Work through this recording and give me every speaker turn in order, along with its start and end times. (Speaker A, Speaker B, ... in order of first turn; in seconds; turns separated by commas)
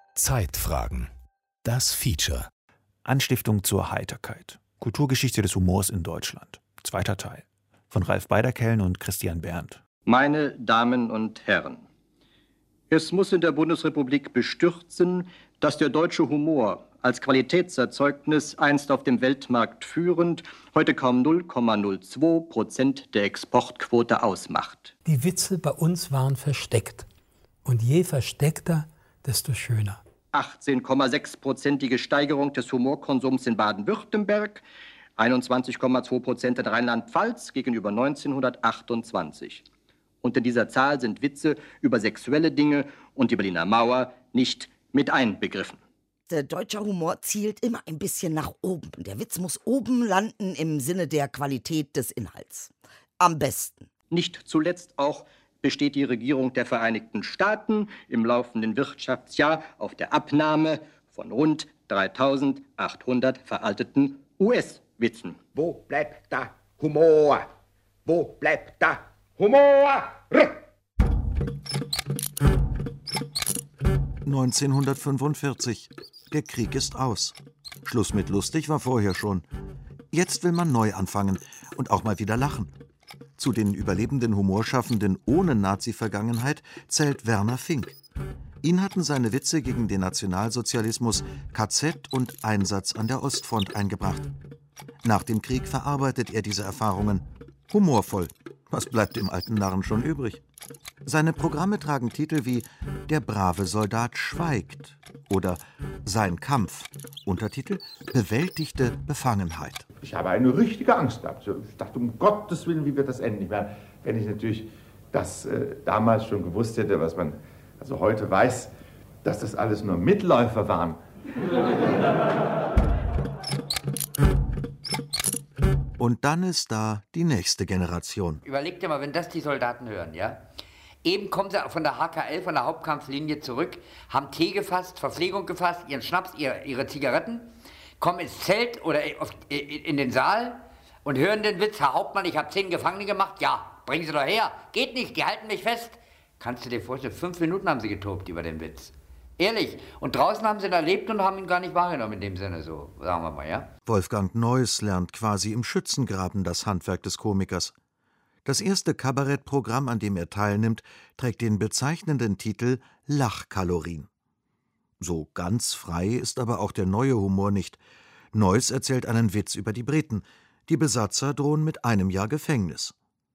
Speaker A: 0.2-1.1, Speaker A: 1.6-2.4, Speaker A: 3.1-7.3, Speaker A: 7.9-9.7, Speaker B: 10.1-11.8, Speaker B: 12.9-24.9, Speaker C: 25.0-27.1, Speaker C: 27.6-30.0, Speaker B: 30.3-34.6, Speaker B: 35.2-39.6, Speaker B: 40.2-45.8, Speaker D: 46.3-53.9, Speaker B: 54.1-65.4, Speaker E: 74.2-79.5, Speaker E: 80.1-82.7, Speaker E: 83.4-88.0, Speaker E: 88.6-94.3, Speaker E: 95.0-100.4, Speaker E: 101.0-109.8, Speaker F: 110.0-118.7, Speaker F: 119.2-121.0, Speaker E: 126.0-128.4, Speaker G: 128.4-130.4, Speaker G: 131.0-137.5, Speaker G: 138.0-153.7, Speaker E: 153.8-157.7, Speaker E: 158.4-164.1, Speaker E: 165.0-167.8, Speaker E: 168.3-172.9